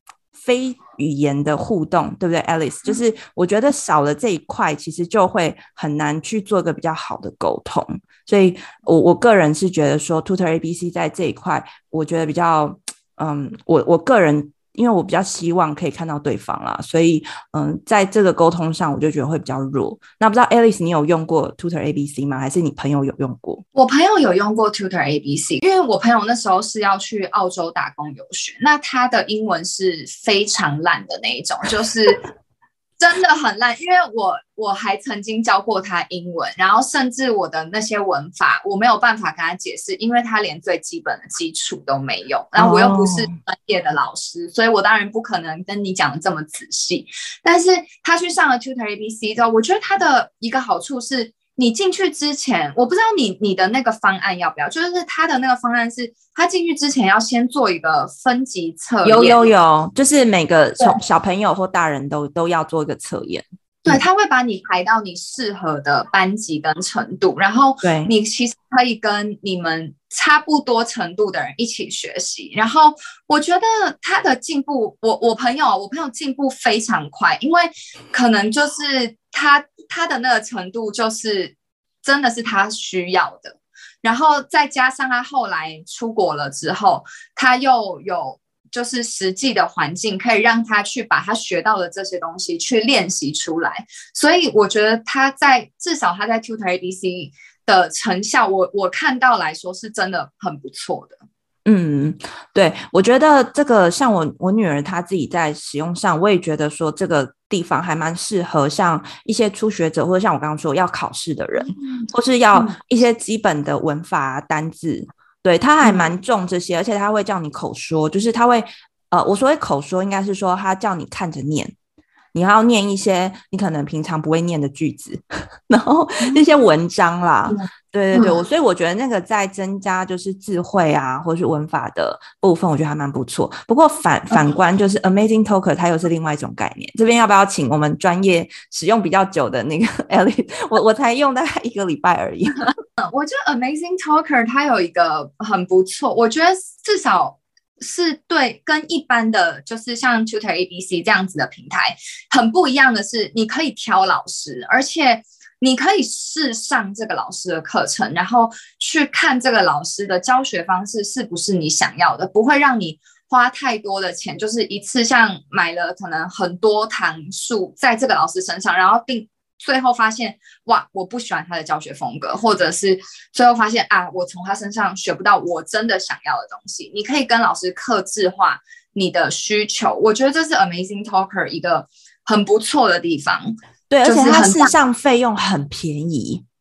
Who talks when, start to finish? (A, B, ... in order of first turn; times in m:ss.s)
0:00.3-0:23.6 A
0:23.8-0:32.2 B
0:33.0-0:59.5 B
0:42.6-0:43.3 A
0:59.0-1:04.0 A
1:03.8-1:41.2 B
1:07.8-1:08.1 A
1:41.7-2:01.7 A
1:51.6-1:52.8 B
1:55.8-1:56.1 B
2:02.3-2:22.7 A
2:07.5-2:08.4 B
2:23.0-3:04.8 B
3:03.9-3:06.4 A